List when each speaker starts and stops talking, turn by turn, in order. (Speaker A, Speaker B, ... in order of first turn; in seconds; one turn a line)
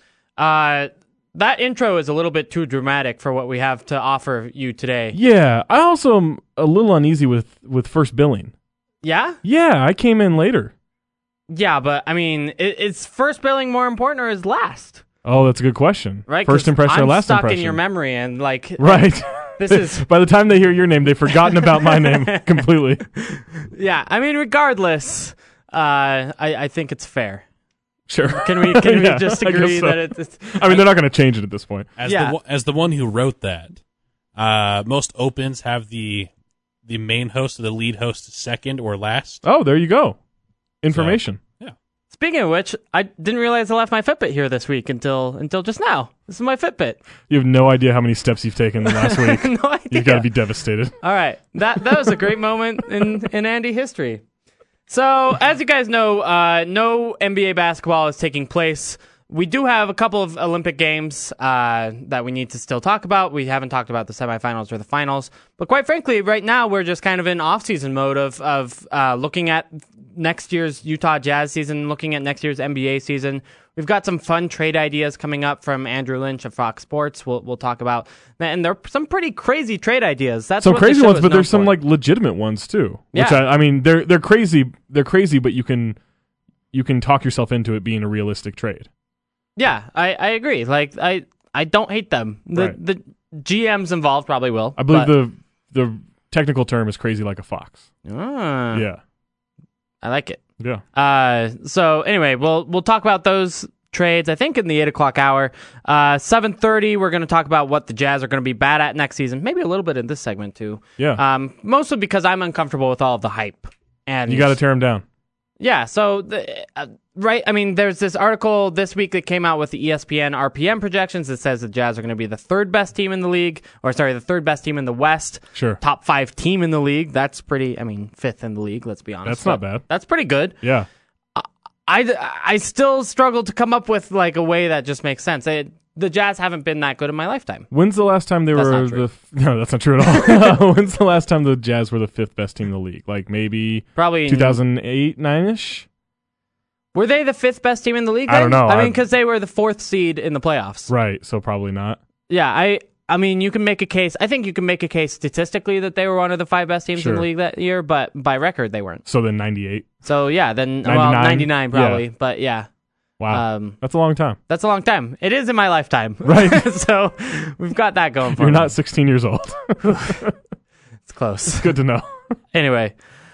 Speaker A: 0.4-5.2
Speaker B: 5.1-8.5
Speaker A: 9.0-9.4
Speaker B: 9.4-10.7
Speaker A: 11.5-15.0
Speaker B: 15.2-17.8
Speaker A: 16.3-20.1
Speaker B: 18.8-23.1
Speaker A: 21.4-22.5
Speaker A: 23.2-27.4
Speaker B: 28.1-31.9
Speaker A: 28.3-30.9
Speaker C: 32.0-33.8
Speaker A: 32.1-32.4
Speaker C: 34.4-36.3
Speaker C: 36.9-39.4
Speaker B: 39.4-40.2
Speaker B: 40.8-41.4
Speaker C: 40.9-41.8
Speaker A: 42.1-47.0
Speaker B: 47.3-51.0
Speaker A: 48.9-50.3
Speaker A: 51.0-54.2
Speaker A: 54.9-81.8
Speaker B: 80.6-86.0
Speaker A: 83.1-83.4
Speaker B: 86.7-88.9
Speaker A: 89.6-95.1
Speaker B: 94.8-97.8
Speaker A: 98.0-98.9
Speaker B: 98.7-99.0
Speaker A: 100.0-100.4
Speaker A: 100.9-114.6
Speaker B: 114.3-115.0
Speaker A: 115.6-130.6
Speaker B: 125.5-125.8
Speaker B: 129.2-129.8
Speaker B: 130.6-130.9
Speaker A: 131.4-137.7
Speaker B: 137.7-145.9
Speaker A: 138.5-139.1
Speaker A: 140.1-140.5
Speaker A: 144.0-144.6
Speaker A: 146.9-150.9
Speaker B: 148.3-149.0
Speaker B: 150.9-152.0
Speaker A: 152.3-159.0
Speaker B: 157.0-157.2
Speaker B: 159.1-159.9
Speaker A: 160.0-162.7
Speaker B: 160.8-162.0
Speaker B: 163.2-164.4
Speaker A: 163.3-163.8
Speaker A: 164.5-168.7
Speaker B: 166.2-166.7
Speaker B: 168.4-170.3
Speaker A: 169.8-170.2
Speaker A: 171.1-171.7
Speaker B: 171.5-172.1
Speaker A: 172.5-172.9